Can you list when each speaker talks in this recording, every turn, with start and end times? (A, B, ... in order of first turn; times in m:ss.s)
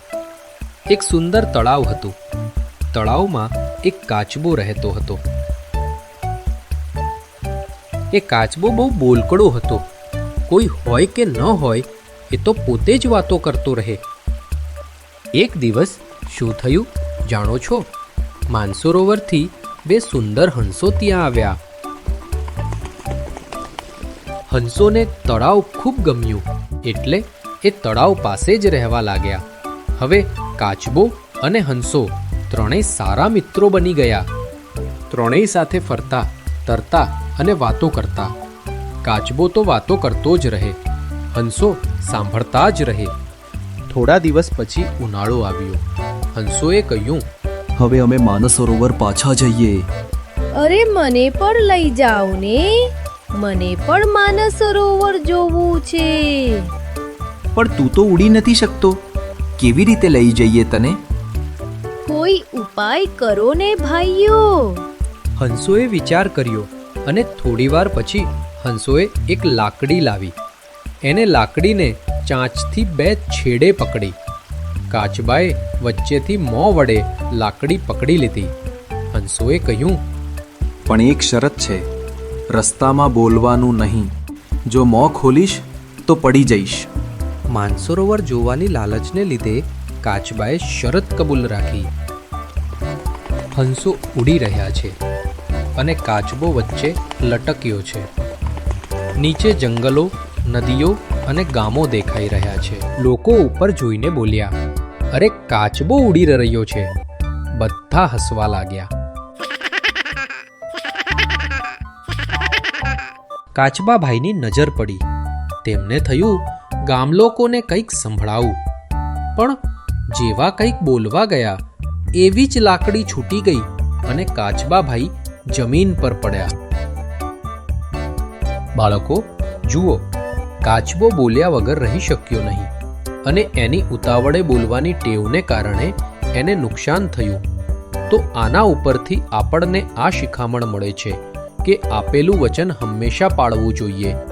0:00.9-0:02.2 A
0:02.9-0:05.2 A
0:08.1-0:09.9 A
0:10.5-0:14.0 A
0:15.3-0:17.9 A
0:18.5-0:21.6 A
0:24.5-0:29.4 A
0:30.0-0:34.3 A
0:35.1-0:38.3 A
0:39.0-0:40.8 A
0:41.3-0:43.1 A
0:43.9-0:47.2 A
0:47.8-0:49.9 B
0:50.6-0:56.7 C
0:57.6-0:59.0 B
0:59.6-1:01.0 B
1:02.1-1:04.8 C
1:05.4-1:10.4 A
1:11.0-1:14.2 A
1:14.9-1:18.5 A
1:19.1-1:20.0 A
1:20.9-1:21.8 B
1:22.5-1:24.1 B
1:24.7-1:26.9 B
1:27.5-1:31.9 A
1:33.5-1:35.0 A
1:35.8-1:38.1 A
1:39.2-1:44.6 A
1:45.1-1:46.9 A
1:47.5-1:48.9 A
1:53.5-1:55.0 A
1:55.6-1:58.6 A
2:00.1-2:01.6 A
2:02.2-2:06.6 A
2:08.8-2:10.0 A
2:10.6-2:12.7 A
2:13.2-2:17.4 A
2:18.1-2:24.2 A